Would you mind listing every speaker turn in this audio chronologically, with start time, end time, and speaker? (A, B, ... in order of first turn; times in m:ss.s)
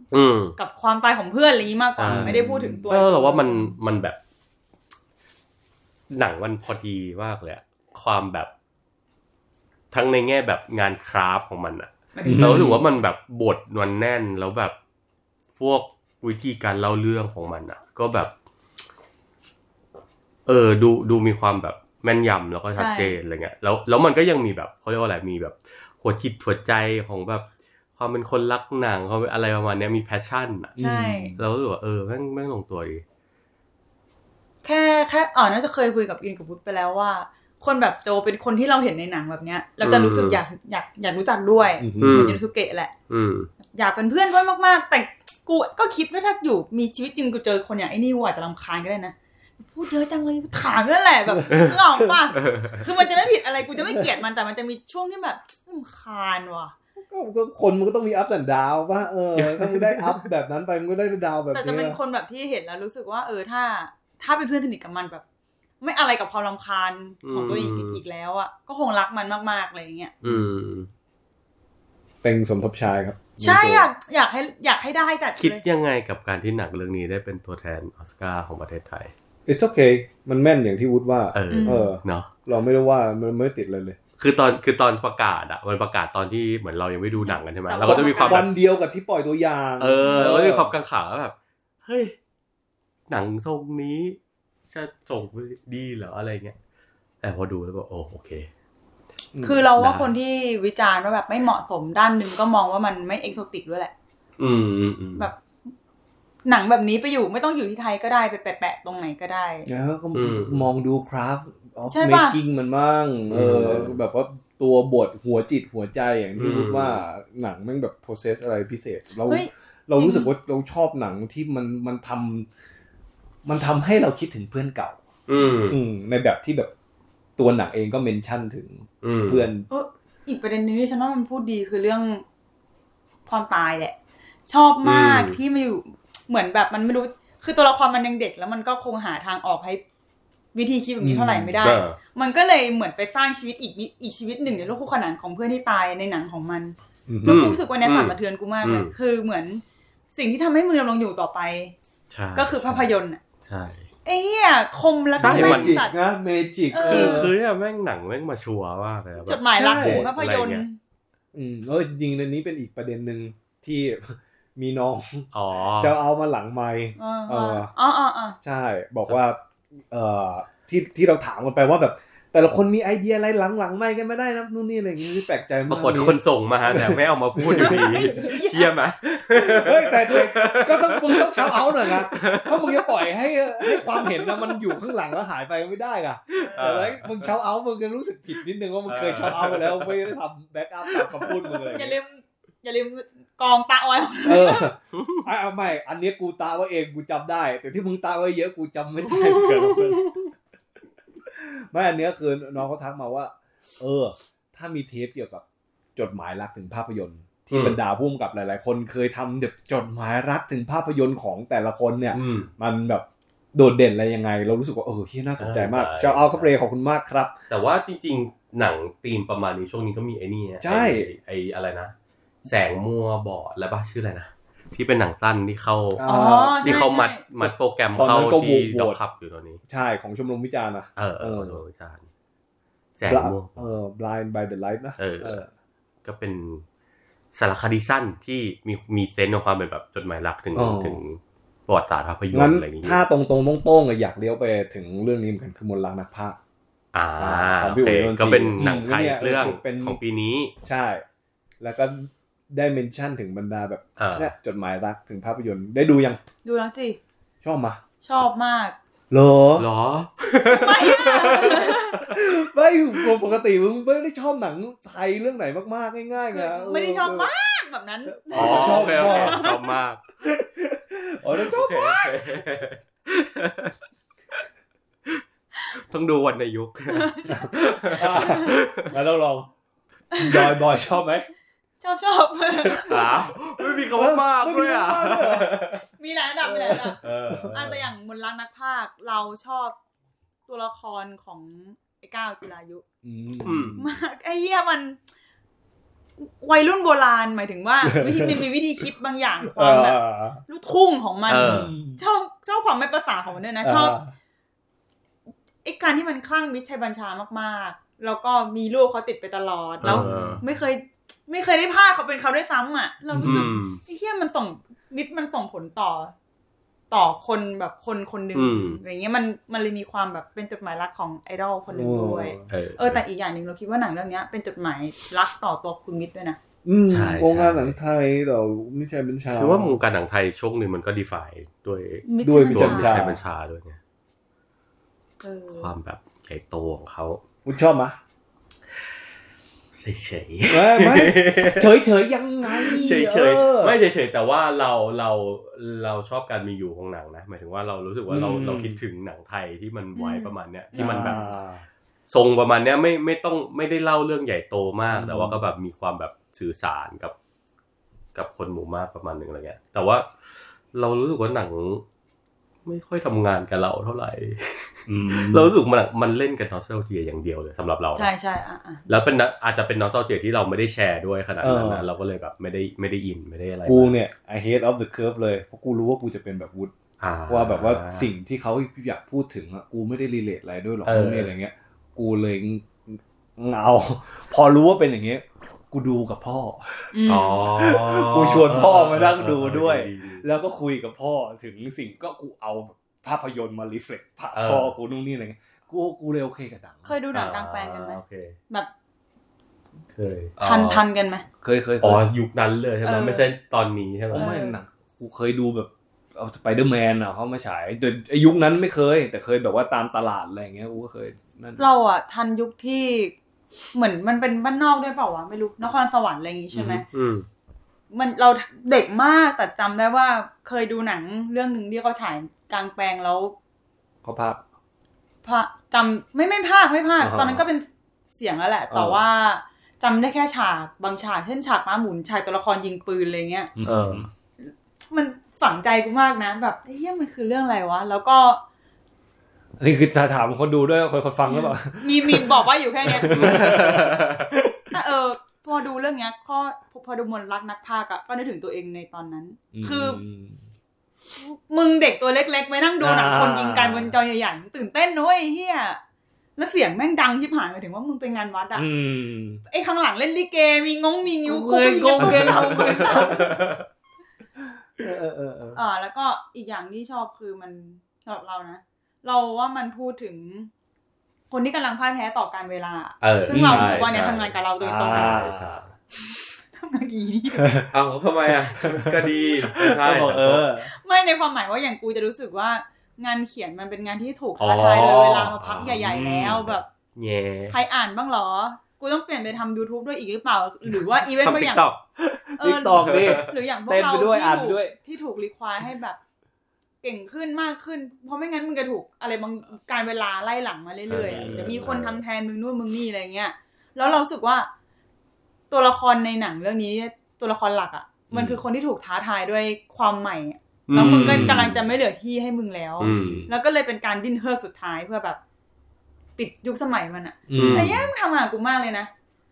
0:00.1-0:00.6 A
0:00.6-0:03.8 B
0:02.0-0:02.4 A
0:02.1-0:02.9 C
0:02.9-0:04.2 A
0:06.1-0:08.5 A
0:09.9-0:14.8 A
0:12.1-0:12.8 B
0:12.2-0:12.8 C
0:15.6-0:18.3 A
0:20.5-0:30.8 A
0:22.8-0:23.2 B
0:30.8-0:31.4 C
0:30.8-0:31.4 B
0:31.4-0:33.0 A
0:34.6-0:42.9 B
0:39.8-0:40.4 A
0:41.8-0:42.4 C
0:42.0-0:42.4 A
0:43.1-0:43.5 A
0:43.7-0:56.7 B
0:51.5-0:51.8 A
0:52.4-0:52.8 A
0:53.7-0:54.0 C
0:57.0-1:02.0 C
0:59.4-1:00.2 A
1:01.5-1:05.2 B
1:05.8-1:10.1 B
1:07.2-1:08.0 A
1:10.2-1:10.9 A
1:10.2-1:10.5 C
1:12.2-1:13.9 C
1:13.4-1:15.6 B
1:15.4-1:19.1 A
1:19.5-1:24.0 C
1:21.3-1:22.3 A
1:21.5-1:21.9 B
1:24.2-1:28.5 A
1:27.2-1:28.5 B
1:27.8-1:30.7 C
1:29.8-1:31.3 A
1:30.0-1:30.3 B
1:31.8-1:32.2 A
1:33.1-1:34.2 A
1:34.7-1:36.6 A
1:37.2-1:38.5 A
1:39.3-1:39.7 C
1:39.4-1:43.9 B
1:39.8-1:40.1 A
1:44.4-1:45.3 A
1:46.4-1:49.7 B
1:49.7-2:02.5 C
1:50.1-1:50.7 A
1:51.9-1:52.4 B
1:53.3-1:54.0 A
1:56.4-1:57.0 A
1:59.3-2:00.3 B
2:03.4-2:05.0 C
2:05.3-2:05.8 A
2:05.7-2:06.7 C
2:07.4-2:09.7 C
2:09.0-2:09.5 A
2:09.7-2:12.2 B
2:13.3-2:14.0 B
2:14.5-2:19.8 B
2:14.8-2:15.4 A
2:20.6-2:29.6 B
2:21.0-2:21.7 C
2:21.6-2:22.0 A
2:27.1-2:27.6 C
2:27.3-2:28.9 A
2:30.2-2:31.8 B
2:32.1-2:32.9 A
2:32.4-2:33.2 B
2:33.5-2:33.9 A
2:34.0-2:36.0 B
2:35.2-2:37.3 C
2:35.2-2:35.8 A
2:36.7-2:37.3 B
2:36.8-2:40.6 A
2:39.2-2:40.8 B
2:39.6-2:40.1 C
2:41.3-2:47.7 C
2:45.3-2:46.0 A
2:47.0-2:48.4 B
2:48.4-2:58.2 C
2:55.7-3:02.9 A
2:57.5-2:58.7 B
2:59.3-3:12.0 C
3:03.7-3:04.4 A
3:06.5-3:07.3 A
3:08.9-3:10.0 A
3:10.9-3:11.3 A
3:11.6-3:14.7 B
3:14.2-3:20.2 C
3:19.1-3:20.2 A
3:21.2-3:25.4 C
3:26.0-3:37.4 C
3:27.5-3:27.8 A
3:32.1-3:32.5 A
3:35.4-3:36.5 A
3:37.5-3:49.6 A
3:40.6-3:41.1 C
3:46.0-3:49.0 C
3:46.1-3:47.2 B
3:49.7-3:51.6 C
3:51.0-3:52.1 A
3:53.0-3:53.6 A
3:53.1-3:55.5 C
3:55.0-3:55.4 A
3:56.0-3:56.6 A
3:57.4-4:03.0 A
4:00.5-4:01.0 C
4:02.3-4:06.4 C
4:06.9-4:10.5 A
4:07.2-4:10.0 C
4:10.6-4:11.0 C
4:11.6-4:16.2 C
4:14.0-4:14.3 A
4:16.4-4:17.0 B
4:17.4-4:17.8 C
4:18.0-4:18.8 B
4:19.1-4:19.7 C
4:19.6-4:22.0 A
4:20.4-4:22.1 B
4:21.2-4:27.3 C
4:26.2-4:29.7 B
4:28.1-4:29.5 C
4:28.3-4:30.0 A
4:30.2-4:32.4 C
4:31.4-4:33.8 A
4:35.8-4:39.0 A
4:36.9-4:38.6 B
4:37.3-4:39.5 C
4:40.1-4:40.6 B
4:40.2-4:41.3 C
4:41.8-4:43.2 B
4:42.8-4:45.8 A
4:43.6-4:45.6 C
4:45.9-4:49.8 B
4:46.4-4:47.8 C
4:47.0-4:47.8 A
4:50.5-4:52.8 B
4:53.0-4:53.8 C
4:53.4-4:53.8 A
4:53.8-4:55.0 B
4:56.2-5:04.0 B
4:57.8-4:58.4 C
4:59.5-5:00.4 C
5:01.3-5:01.7 A
5:01.4-5:02.0 C
5:03.6-5:04.1 C
5:05.6-5:16.1 B
5:09.8-5:10.4 C
5:09.8-5:10.4 A
5:13.1-5:13.5 C
5:13.2-5:13.8 A
5:16.9-5:26.4 B
5:18.4-5:18.8 A
5:21.7-5:22.5 C
5:22.5-5:23.0 A
5:26.6-5:29.8 C
5:26.9-5:27.7 A
5:29.3-5:33.8 A
5:32.0-5:33.1 B
5:32.2-5:33.2 C
5:35.2-5:35.7 B
5:35.5-5:37.2 A
5:37.4-5:38.0 C
5:39.8-5:41.8 A
5:40.5-5:43.8 C
5:42.4-5:51.2 A
5:48.1-5:48.8 C
5:50.0-5:51.3 B
5:50.8-5:51.6 C
5:52.1-5:57.2 A
5:54.9-5:55.4 C
5:58.2-6:00.1 A
6:00.7-6:01.8 A
6:02.7-6:08.1 A
6:04.9-6:05.5 C
6:08.0-6:08.8 B
6:08.9-6:13.9 A
6:11.4-6:11.9 C
6:13.7-6:16.7 C
6:17.0-6:18.1 A
6:17.3-6:36.9 C
6:20.8-6:21.3 A
6:26.9-6:27.5 B
6:27.1-6:30.2 A
6:34.3-6:34.7 A
6:36.9-6:38.7 B
6:37.1-6:38.4 A
6:39.9-6:40.8 A
6:40.4-6:41.2 B
6:41.4-6:42.1 C
6:41.8-6:44.3 A
6:42.8-6:43.3 B
6:44.1-6:51.6 C
6:44.2-6:44.6 B
6:51.6-6:53.1 B
6:53.7-6:56.8 B
6:56.5-6:56.8 C
6:56.9-6:57.3 A
6:57.9-7:03.4 B
7:04.0-7:04.4 C
7:05.2-7:13.5 B
7:07.0-7:07.4 C
7:08.7-7:09.0 C
7:13.6-7:14.1 C
7:13.6-7:14.1 A
7:14.4-7:18.4 B
7:19.6-7:24.6 C
7:21.3-7:23.5 B
7:23.1-7:24.3 A
7:24.7-7:30.0 B
7:29.5-7:30.4 C
7:31.2-7:35.8 B
7:32.8-7:34.0 C
7:36.4-7:38.7 B
7:38.6-7:39.4 C
7:39.5-7:43.4 B
7:41.2-7:43.5 C
7:42.0-7:43.6 A
7:44.8-7:45.6 C
7:45.5-7:50.5 B
7:51.3-7:55.2 B
7:53.0-7:55.7 A
7:53.3-7:54.0 C
7:54.6-7:55.6 C
7:56.0-7:57.6 B
7:57.4-7:57.7 C
7:57.7-8:00.5 A
7:58.3-8:00.7 C
8:00.6-8:06.7 B
8:04.4-8:07.6 A
8:05.7-8:06.4 C
8:07.5-8:11.7 B
8:11.2-8:12.2 A
8:12.3-8:14.8 C
8:12.4-8:16.0 B
8:12.8-8:13.3 A
8:16.8-8:24.5 B
8:20.9-8:22.0 A
8:20.9-8:21.8 C
8:25.5-8:35.2 B
8:28.1-8:28.4 C
8:30.7-8:31.7 A
8:30.7-8:31.6 C
8:32.8-8:33.3 A
8:32.8-8:33.3 C
8:36.2-8:38.9 B
8:37.3-8:37.9 C
8:37.3-8:37.9 A